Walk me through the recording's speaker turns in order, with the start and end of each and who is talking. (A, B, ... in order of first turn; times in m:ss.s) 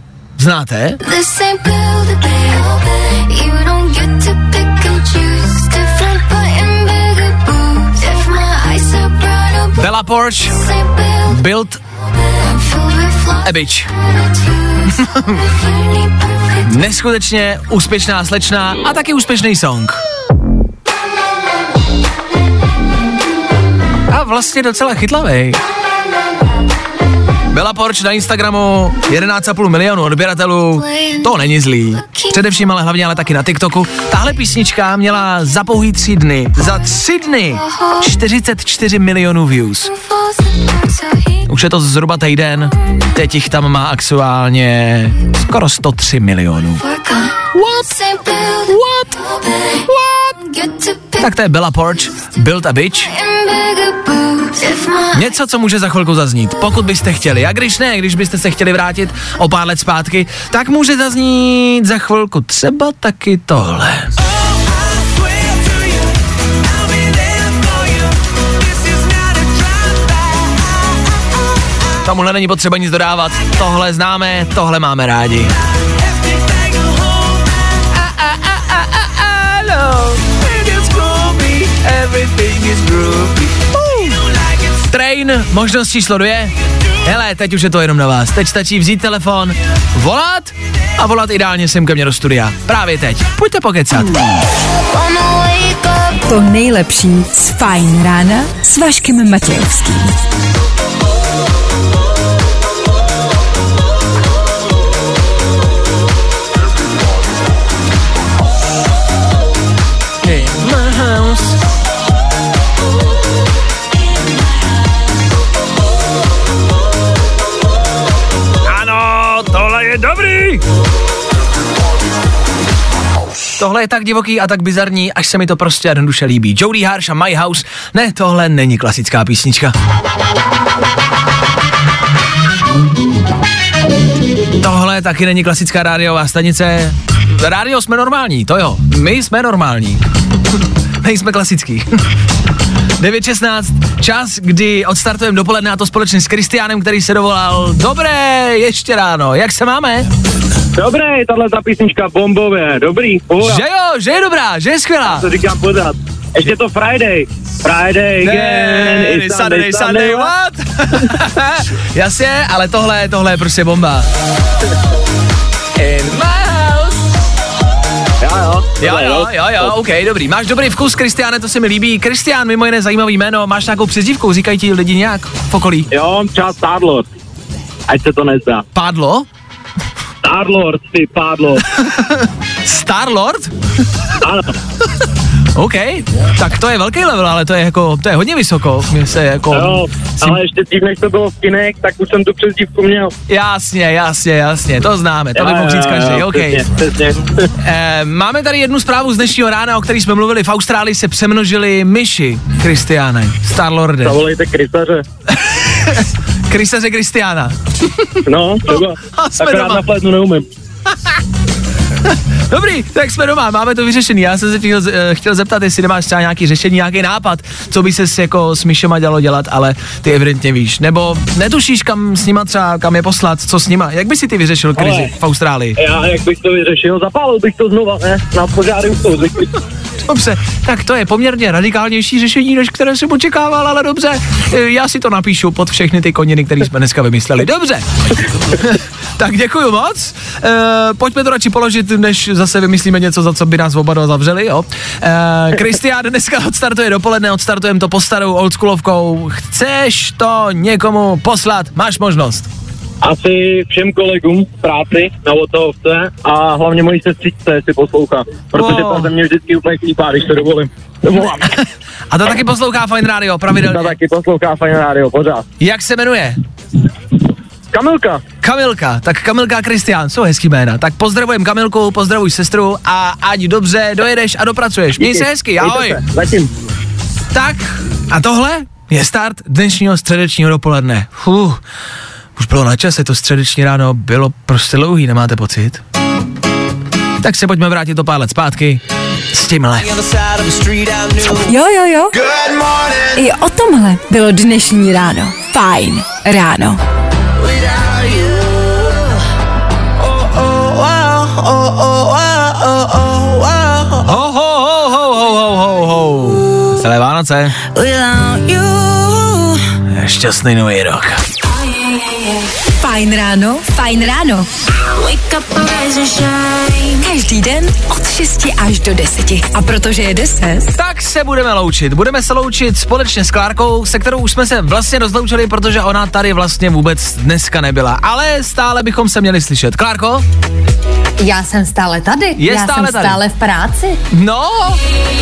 0:00.4-0:01.0 A
0:01.0-0:10.0 B
0:09.8-0:10.6 A
0:10.5-0:11.4 B
0:11.2-0:11.8 A
0:12.4-0:16.9 B
0:13.4-0:13.9 A
0:14.9-0:15.4 A
0:16.6-0:20.0 A
0:24.1-0:25.6 A
0:27.5-0:39.9 A
0:30.7-0:32.7 B
0:37.5-0:38.2 B
0:39.8-0:41.5 B
0:41.4-0:46.8 A
0:46.8-0:51.5 B
0:47.5-0:47.9 A
0:48.7-0:49.1 A
0:49.9-0:50.3 A
0:51.2-0:53.1 A
0:53.0-0:55.4 B
0:55.1-1:04.1 A
1:12.0-1:15.5 A
1:17.8-1:26.5 A
1:27.0-1:34.2 A
1:34.9-1:36.2 B
1:36.3-1:40.1 C
1:50.2-1:51.6 A
1:58.6-2:00.6 A
2:03.6-2:09.7 A
2:14.6-2:20.0 A
2:21.0-2:21.9 A
2:23.0-2:30.1 A
2:30.8-2:33.6 D
2:33.4-2:35.3 A
2:35.0-2:40.3 D
2:38.2-2:44.1 A
2:45.8-2:47.1 A
2:48.2-2:49.7 D
2:48.8-2:55.9 A
2:55.9-2:57.1 D
2:57.9-2:58.6 D
2:58.7-2:59.3 A
3:00.2-3:01.6 D
3:01.8-3:03.5 A
3:04.2-3:04.5 D
3:05.5-3:10.4 A
3:09.5-3:13.1 D
3:13.3-3:16.6 A
3:15.3-3:17.5 D
3:17.6-3:24.2 A
3:24.0-3:25.0 D
3:25.3-3:29.9 A
3:28.2-3:30.4 D
3:32.0-3:45.8 A
3:44.8-3:45.1 D
3:45.8-3:49.5 D
3:50.0-4:12.5 A
4:13.0-4:21.5 D
4:18.5-4:19.1 A
4:22.1-4:24.0 A
4:23.6-4:25.4 D
4:25.6-4:26.4 A
4:27.7-4:28.2 D
4:28.4-4:36.0 A
4:35.0-4:36.5 D
4:37.3-4:41.6 A
4:42.4-4:45.8 A
4:47.2-4:50.0 A
4:50.0-4:51.2 D
4:51.4-4:52.2 C
4:53.2-4:56.8 C
5:00.6-5:01.7 D
5:04.0-5:07.5 A
5:07.8-5:08.5 C
5:08.5-5:09.3 B
5:09.9-5:11.2 A
5:12.8-5:14.5 C
5:14.9-5:17.0 B
5:17.0-5:20.7 C
5:20.7-5:30.2 A
5:31.2-5:34.0 E
5:32.4-5:33.2 A
5:34.1-5:34.8 A